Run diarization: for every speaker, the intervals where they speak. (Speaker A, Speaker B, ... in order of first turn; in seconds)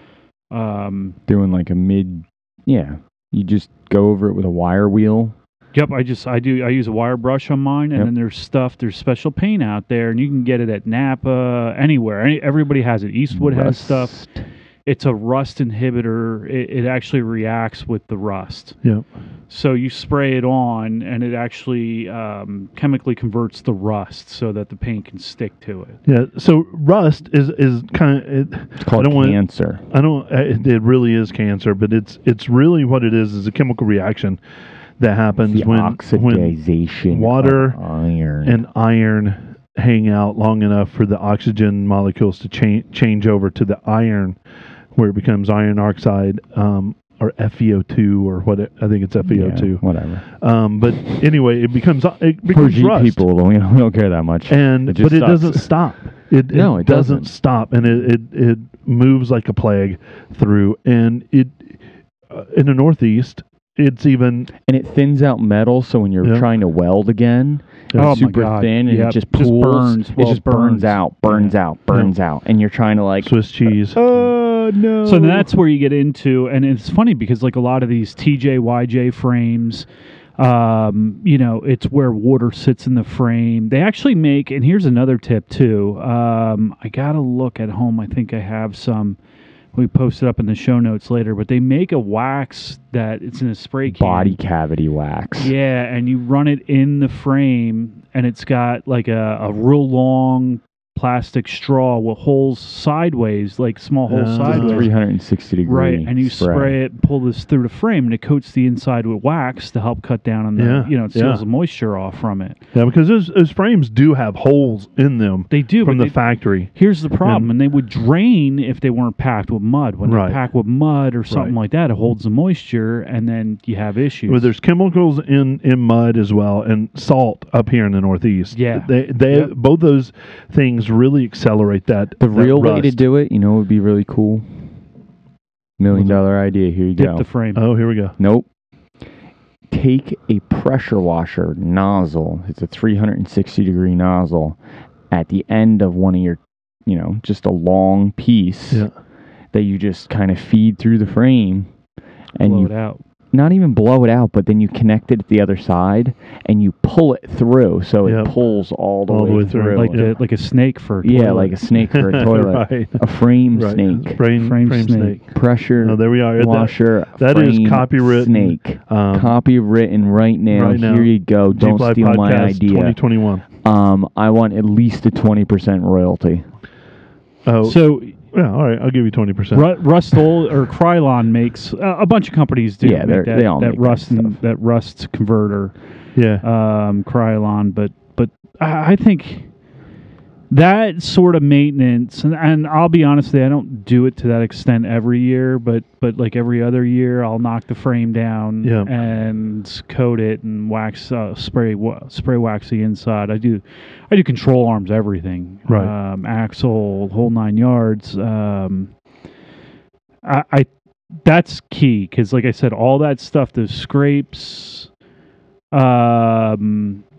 Speaker A: 0.5-1.2, 5.7-14.2, 14.8-18.8, 19.5-26.0, 68.0-71.5, 75.0-79.9, 80.4-89.2, 89.7-94.4, 95.4-104.9, 105.6-112.6, 115.5-124.5, 128.5-129.5, 137.0-137.6, 152.4-153.0, 159.7-161.5, 164.4-165.2, 177.6-178.1, 179.5-185.8, 186.4-189.5, 190.5-208.9, 210.2-210.7, 211.2-214.9, 215.7-217.0
Speaker B: 1.3-5.3, 13.3-14.4, 28.8-29.8, 35.5-38.6, 49.2-50.2, 52.5-55.7, 56.5-57.3, 64.6-75.5, 93.9-95.5, 104.4-106.8, 132.2-134.4, 135.8-137.2, 138.2-138.5, 139.7-144.6, 145.1-148.9, 149.5-151.7, 152.3-152.7, 153.3-160.1, 161.0-164.2, 165.3-173.0, 173.6-176.5, 182.8-184.4
Speaker C: 26.1-34.4, 35.0-36.6, 37.1-37.8, 38.4-44.4, 44.9-53.2, 54.5-61.8, 62.3-64.5, 67.9-68.2, 73.2-74.0, 104.1-104.9, 110.5-111.4, 112.7-117.5, 120.0-120.4, 121.3-121.5, 124.3-133.1, 135.9-136.2, 137.5-138.1, 158.0-158.3, 159.1-160.2, 161.7-169.4, 170.5-173.4, 177.4-179.7, 186.1-186.4, 198.6-198.9, 205.7-205.9